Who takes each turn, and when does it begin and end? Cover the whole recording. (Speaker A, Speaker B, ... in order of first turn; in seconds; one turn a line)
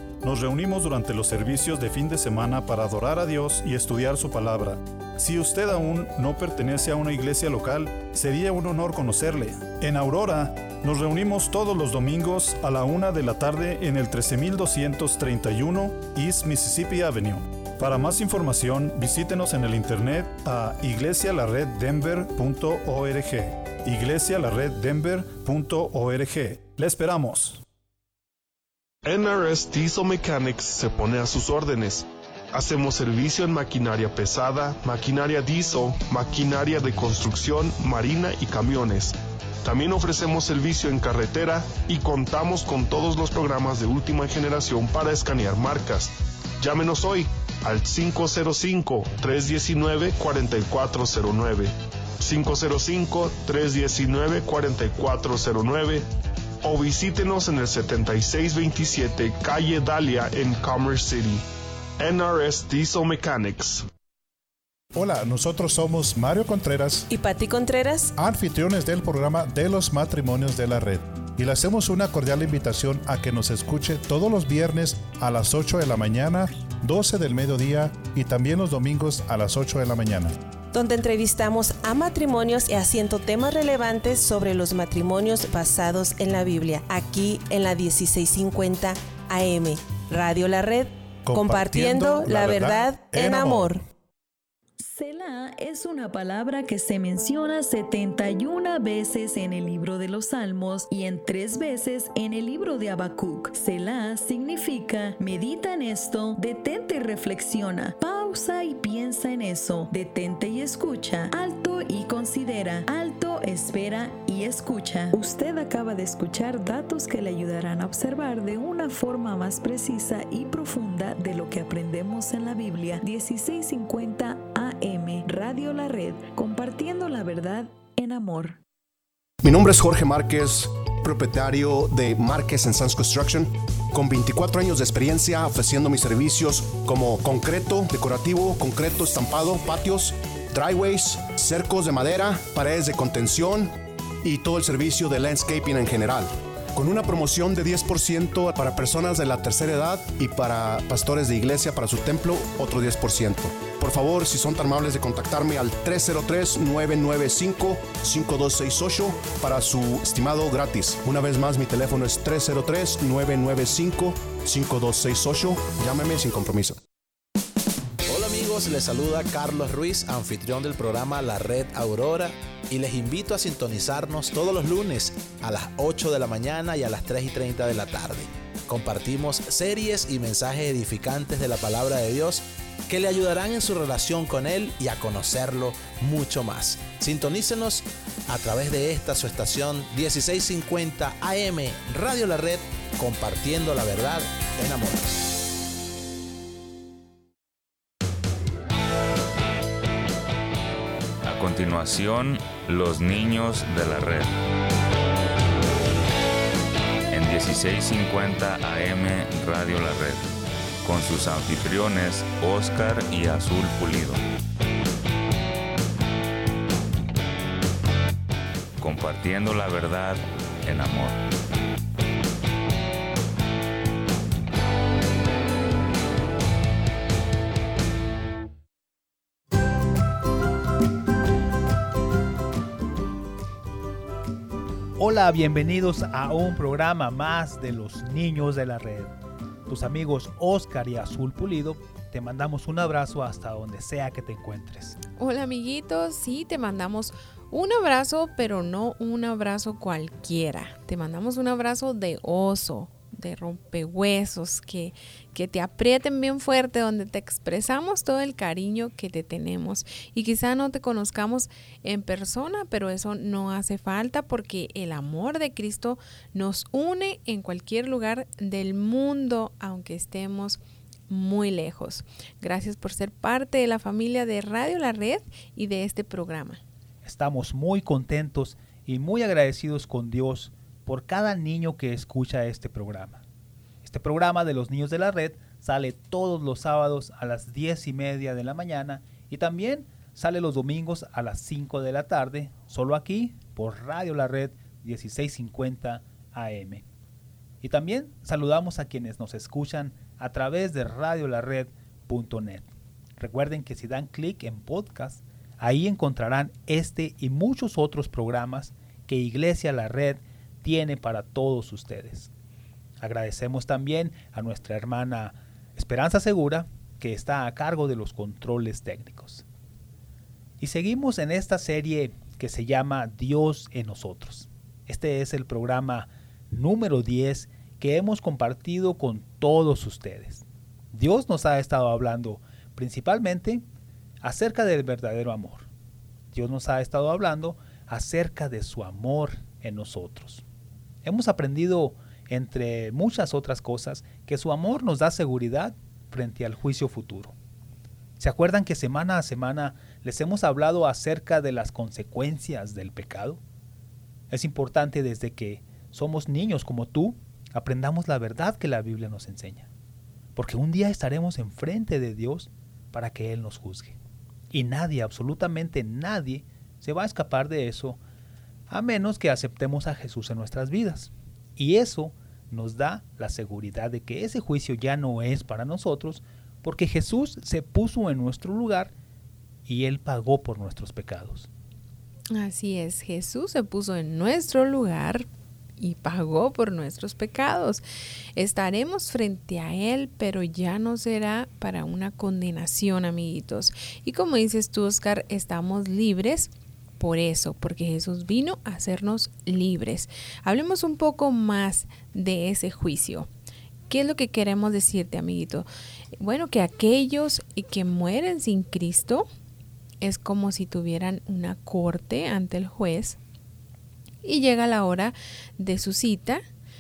Speaker A: 0.2-27.6
Speaker B: 29.0-56.1
Speaker B: 56.6-61.5
Speaker B: 62.0-63.9
Speaker C: 65.0-67.1
Speaker D: 67.1-68.1
Speaker C: 68.2-80.4
Speaker D: 80.7-93.8
Speaker C: 91.2-93.8
Speaker E: 94.8-128.6
Speaker F: 129.4-166.8
Speaker G: 168.1-195.2
Speaker H: 201.2-204.3
Speaker H: 207.1-210.3
Speaker H: 210.8-214.2
Speaker H: 218.8-221.2
Speaker I: 235.0-245.0
Speaker J: 245.2-276.6
Speaker I: 277.0-283.2
Speaker I: 283.8-296.9
Speaker I: 297.6-312.3
Speaker I: 313.0-319.4
Speaker I: 320.6-333.6
Speaker I: 334.2-335.7
Speaker I: 336.3-340.4
Speaker I: 341.0-347.4
Speaker I: 348.2-353.4
Speaker I: 354.3-359.7
Speaker I: 360.4-364.0
Speaker I: 364.5-368.0
Speaker I: 368.7-378.9
Speaker I: 379.7-381.5
Speaker J: 382.3-385.3
Speaker J: 385.8-387.8
Speaker J: 388.4-403.3
Speaker J: 403.9-405.7
Speaker J: 406.2-409.3
Speaker J: 410.0-413.2
Speaker J: 414.2-416.4